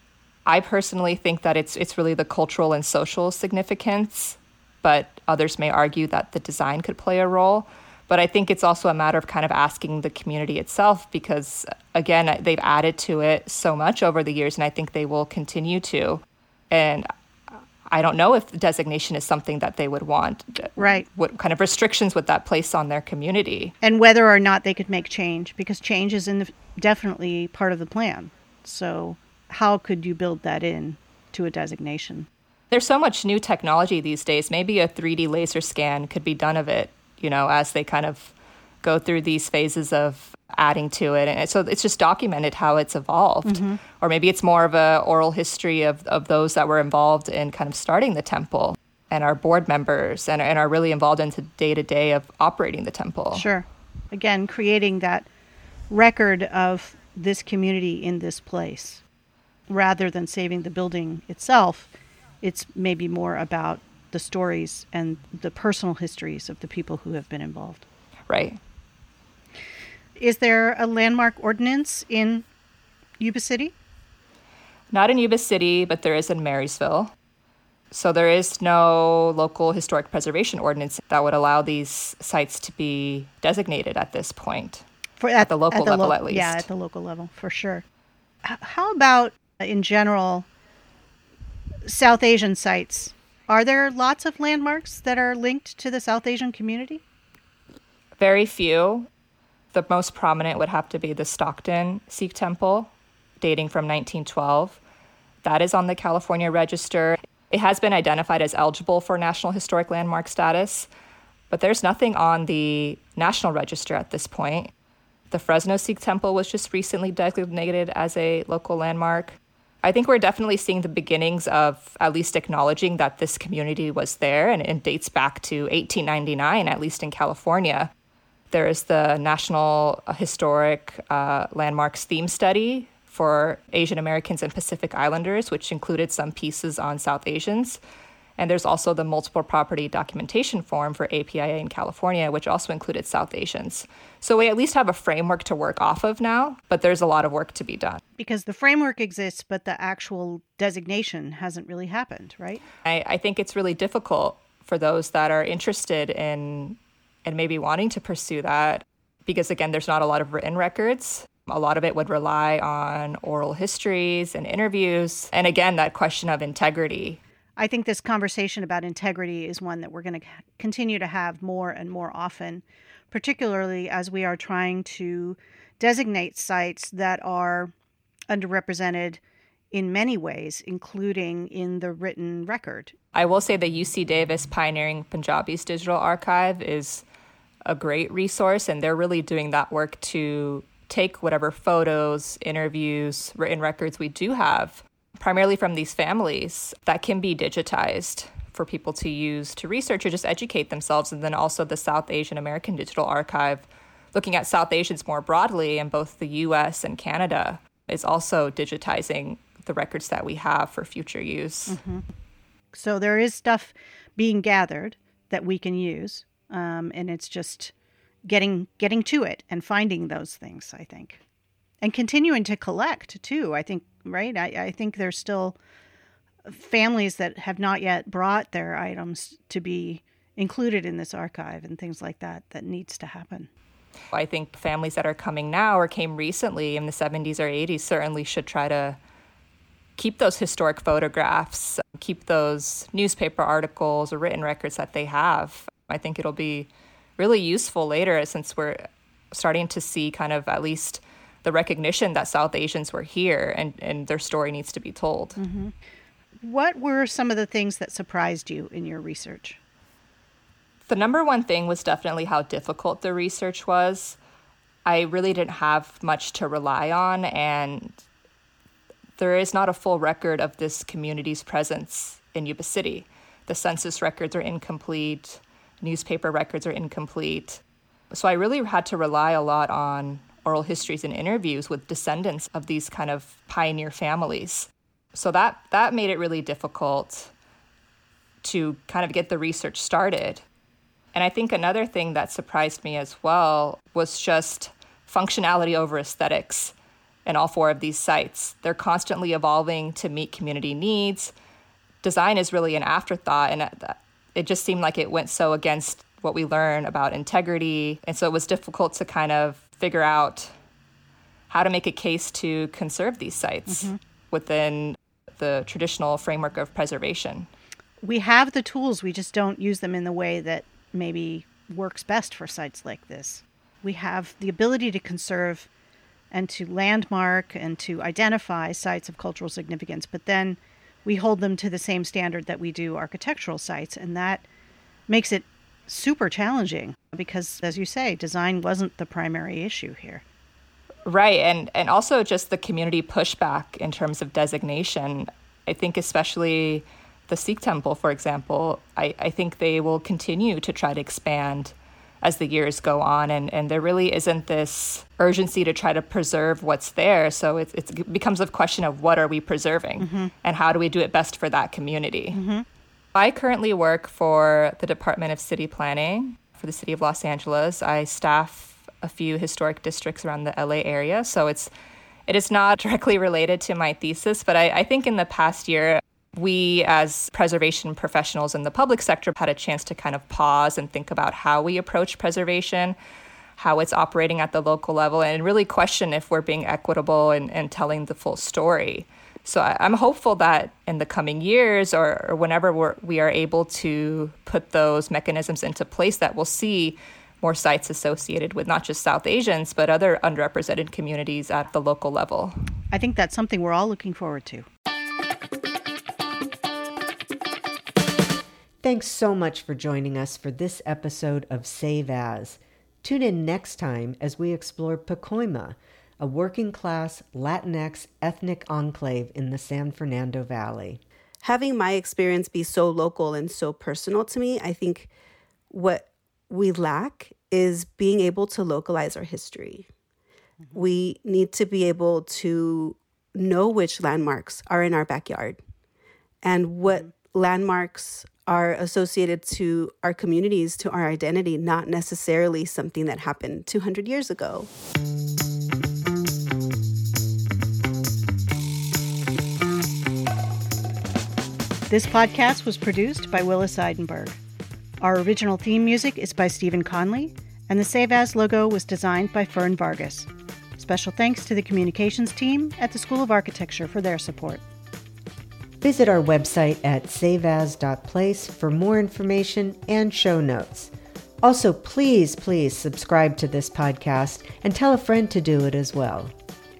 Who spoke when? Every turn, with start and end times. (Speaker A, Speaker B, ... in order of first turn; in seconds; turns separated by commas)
Speaker A: 0.5-23.7, Speaker B: 20.8-21.1, Speaker B: 23.8-32.3, Speaker A: 32.7-53.5, Speaker B: 43.5-43.8, Speaker B: 53.3-55.3, Speaker B: 55.9-59.0, Speaker B: 59.7-67.9, Speaker A: 68.3-68.6, Speaker B: 70.2-72.5, Speaker B: 73.2-73.7, Speaker A: 74.9-77.1, Speaker A: 77.9-84.8, Speaker B: 85.2-87.8, Speaker A: 85.4-86.7, Speaker B: 88.4-90.5, Speaker B: 91.8-97.0, Speaker A: 98.2-99.1, Speaker A: 99.7-104.8, Speaker A: 105.4-110.9, Speaker A: 111.5-114.7, Speaker A: 115.3-127.9, Speaker A: 128.5-137.8, Speaker A: 138.4-148.0, Speaker B: 148.2-152.6, Speaker A: 152.8-167.2, Speaker B: 167.6-177.7, Speaker B: 178.3-179.2, Speaker B: 179.7-182.9, Speaker A: 183.1-187.0, Speaker A: 187.7-211.8, Speaker B: 211.7-212.1, Speaker B: 212.7-217.7, Speaker B: 218.3-221.2, Speaker B: 221.8-225.6, Speaker B: 226.5-233.5, Speaker A: 234.1-239.0, Speaker A: 240.0-255.4, Speaker B: 255.4-255.8, Speaker B: 256.4-259.6, Speaker A: 260.9-264.2, Speaker A: 264.9-268.0, Speaker A: 269.2-277.6, Speaker A: 278.1-287.3, Speaker A: 288.4-290.4, Speaker A: 291.1-296.7, Speaker A: 297.2-301.3, Speaker A: 302.0-310.5, Speaker A: 311.5-317.5, Speaker B: 313.7-314.0, Speaker B: 318.0-325.7, Speaker B: 326.3-334.5, Speaker B: 335.1-340.2, Speaker A: 341.1-362.4, Speaker B: 360.0-360.3, Speaker B: 362.3-362.6, Speaker A: 363.1-371.7, Speaker A: 372.3-383.0, Speaker A: 383.6-402.6, Speaker B: 402.9-404.7, Speaker C: 408.8-421.0, Speaker D: 421.4-425.1, Speaker D: 425.7-429.9, Speaker D: 430.7-435.6, Speaker D: 436.4-444.7, Speaker B: 451.9-454.4, Speaker B: 455.0-464.6, Speaker C: 465.8-476.3